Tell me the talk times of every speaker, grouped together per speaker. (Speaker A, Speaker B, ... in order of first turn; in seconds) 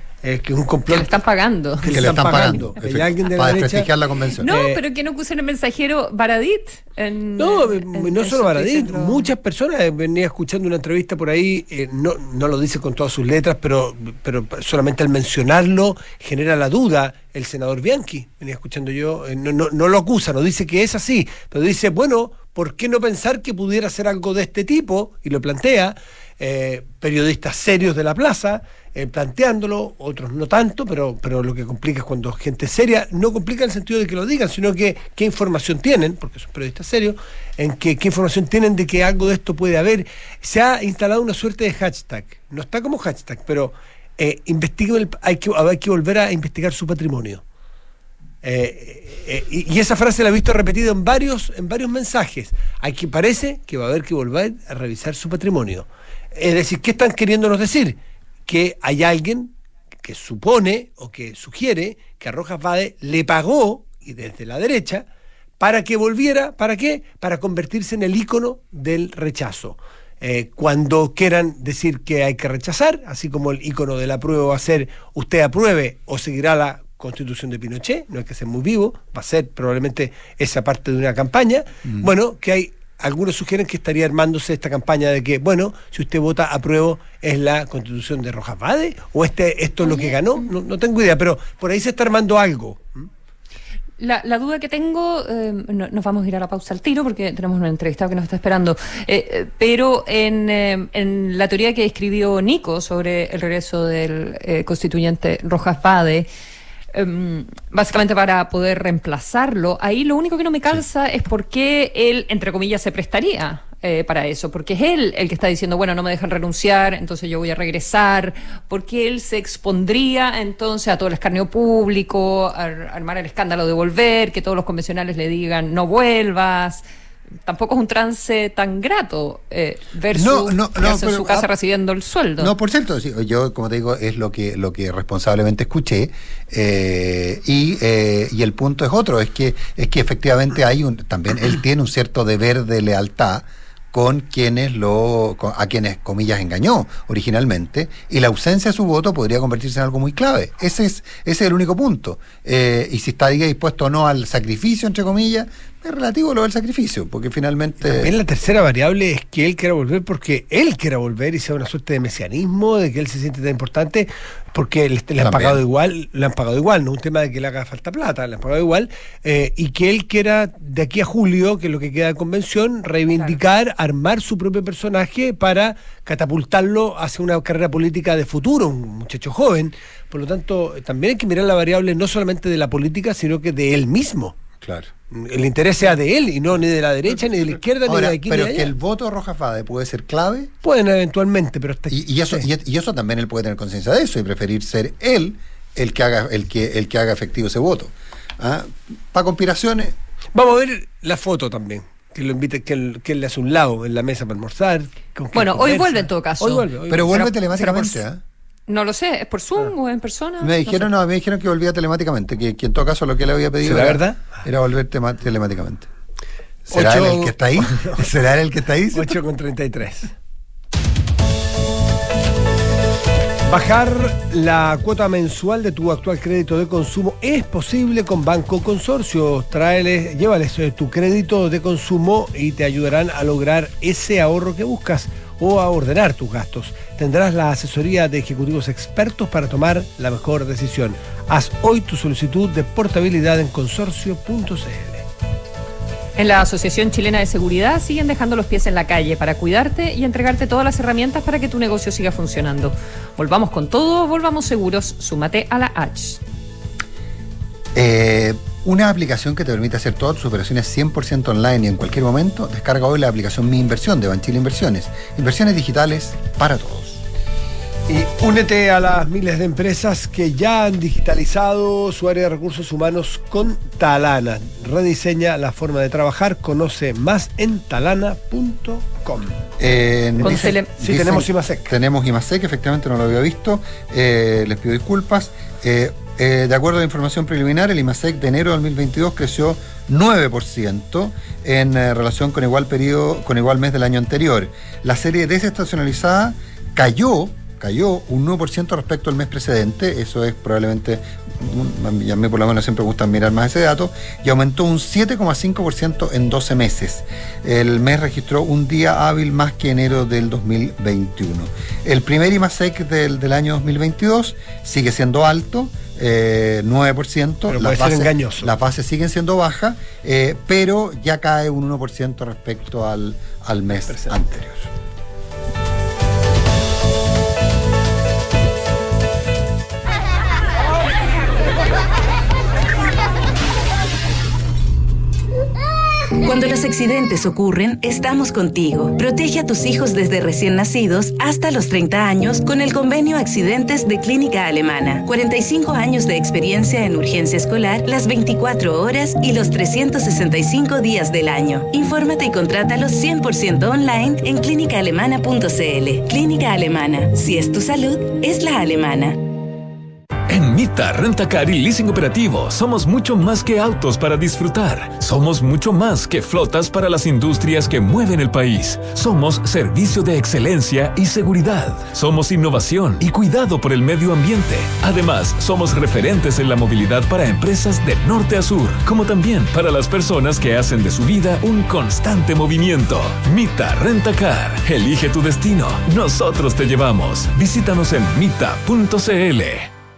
Speaker A: 0.2-1.1, 1.8-3.9, 4.4-4.8, 7.4-47.4, 48.4-65.0, 65.6-93.1, 157.8-184.4, 185.1-188.7, 190.6-192.5, 200.3-207.3, 213.6-214.3, 216.7-218.0, 218.9-220.1, 223.5-245.1, 267.9-279.4, 280.2-281.7, 317.5-318.5
Speaker B: 0.9-2.7, 4.4-9.3, 89.8-90.2, 94.0-106.3, 106.9-126.8, 127.5-132.5, 205.3-208.0, 208.7-210.9, 246.2-256.2, 280.2-280.7
Speaker C: 1.8-4.5, 130.1-131.5, 132.4-158.1, 165.2-165.6, 184.6-184.9, 187.8-190.5, 191.9-199.9, 206.9-208.2, 210.4-215.9, 216.7-219.2, 257.7-267.0, 279.6-324.7
Speaker D: 336.2-359.3
Speaker E: 360.3-389.7